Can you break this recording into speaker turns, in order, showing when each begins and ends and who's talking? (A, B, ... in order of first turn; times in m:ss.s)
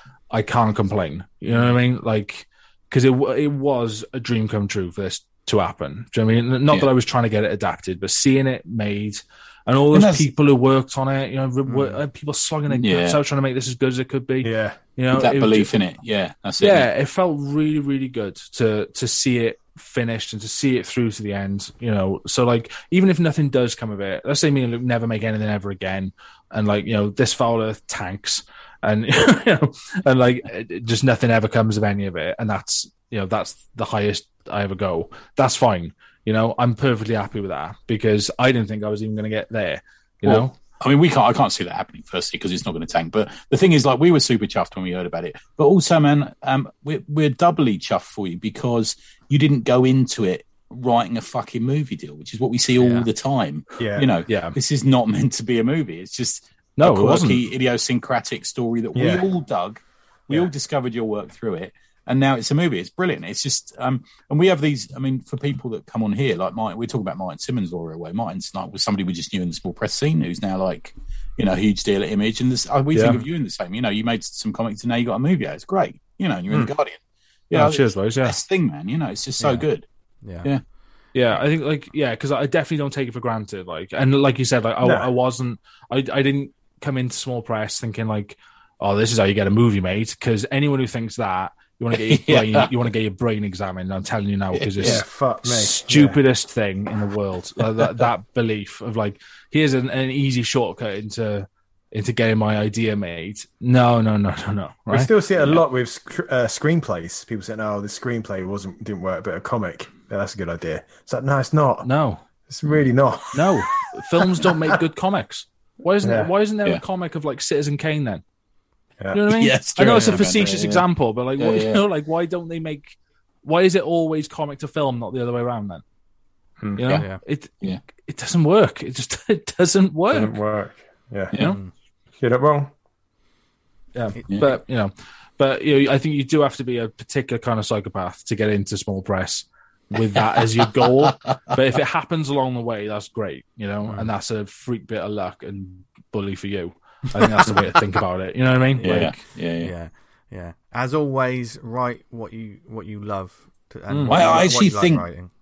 0:00.3-0:15.7 A
0:09.9-0:10.3 B
0:11.7-0:12.0 C
0:12.7-0:13.2 B
0:14.4-0:14.8 D
0:15.1-0:16.9 B
0:16.6-0:40.5 A
0:40.3-1:17.0 B
0:52.8-0:53.1 A
0:53.8-0:54.1 D
0:54.3-0:54.6 A
0:56.8-0:57.4 A
0:58.9-0:59.2 D
1:12.9-1:13.2 D
1:17.5-1:19.9 B
1:17.5-1:18.4 A
1:19.4-1:19.6 C
1:20.2-1:20.5 C
1:21.1-1:45.6 A
1:24.8-1:25.1 D
1:31.9-1:32.7 B
1:34.5-1:35.0 B
1:34.8-1:36.2 D
1:37.7-1:38.1 B
1:44.9-1:51.9 D
1:51.8-1:52.2 A
1:52.5-1:54.5 D
1:53.3-1:58.2 A
1:56.0-1:56.3 D
1:59.1-2:05.8 A
1:59.3-2:00.8 B
2:01.4-2:01.8 B
2:06.8-2:10.4 A
2:06.9-2:07.2 C
2:10.1-2:11.3 D
2:11.3-2:11.6 B
2:11.4-2:11.7 C
2:12.2-2:12.7 D
2:13.9-2:29.2 A
2:28.8-2:35.3 C
2:28.8-2:29.7 B
2:33.9-2:34.2 A
2:34.1-2:35.1 B